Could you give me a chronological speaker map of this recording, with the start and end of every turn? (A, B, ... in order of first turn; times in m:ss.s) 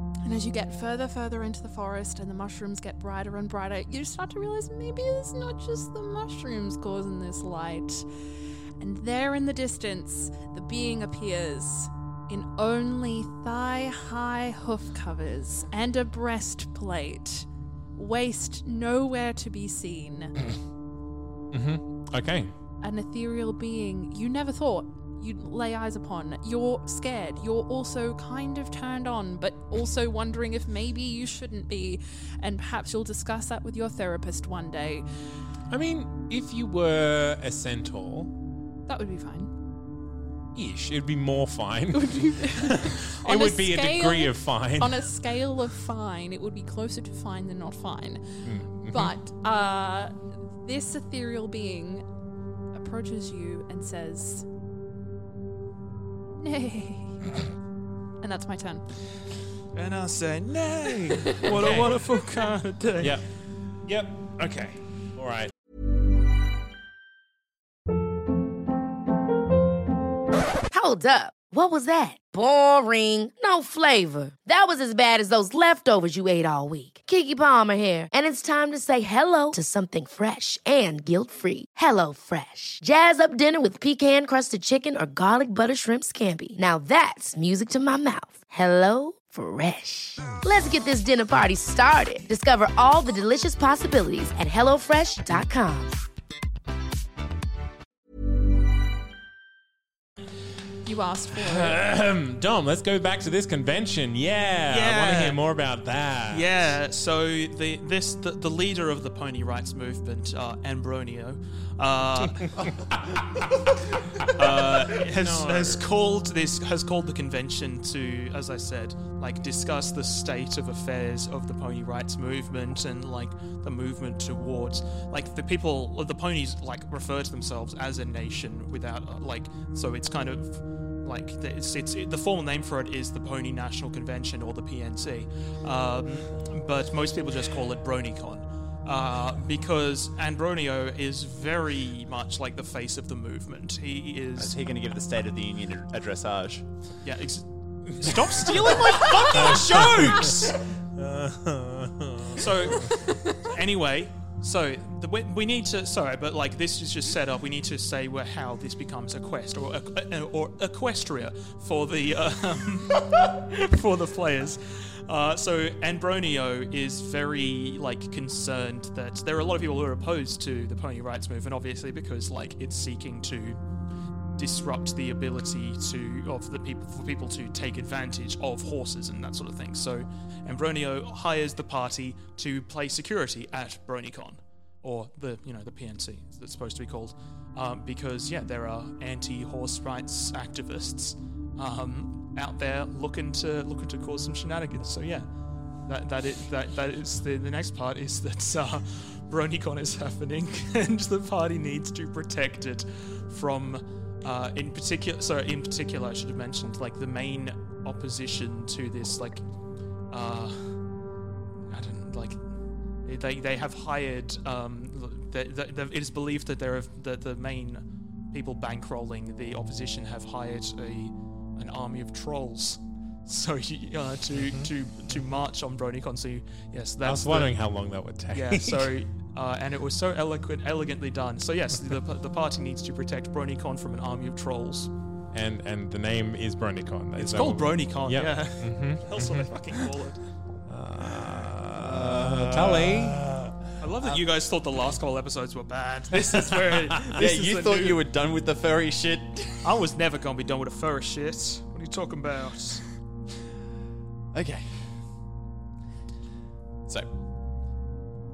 0:00.2-0:08.1 A
0:08.8-0:20.3 A
0:21.5-0:22.5 B
0:22.8-0:35.1 A
0:35.7-0:38.3 B
0:38.9-0:39.5 A
0:40.6-0:45.1 B
0:41.9-0:48.2 A
0:48.4-0:49.1 B
0:48.9-0:52.0 A
0:52.7-0:54.5 A
0:56.4-0:57.2 A
0:58.2-0:58.8 A
0:59.7-1:03.2 C
1:01.4-1:02.0 B
1:03.0-1:03.2 B
1:03.9-1:05.5 B
1:10.7-1:35.9 D
1:40.9-1:41.8 A
1:41.3-1:46.5 B
1:44.7-1:45.4 C
1:46.3-1:52.6 C
1:54.2-1:54.7 B
1:54.3-2:24.6 C
1:55.2-1:55.8 B
2:24.4-2:26.7 E
2:27.0-2:30.6 C
2:29.3-2:30.4 B
2:31.0-2:33.0 B
2:32.4-2:53.6 C
2:54.4-3:15.3 C
3:15.9-3:29.4 C
3:30.1-3:30.8 C
3:31.7-3:32.4 C
3:33.0-3:47.6 C
3:44.4-3:45.2 B
3:47.0-3:48.9 B
3:48.3-3:54.9 C
3:55.3-3:59.5 B
3:57.2-4:00.2 C
4:00.7-4:03.2 B
4:01.8-4:04.2 E
4:03.8-4:08.0 C
4:07.2-4:09.7 E
4:09.6-4:12.8 C
4:14.3-4:14.9 E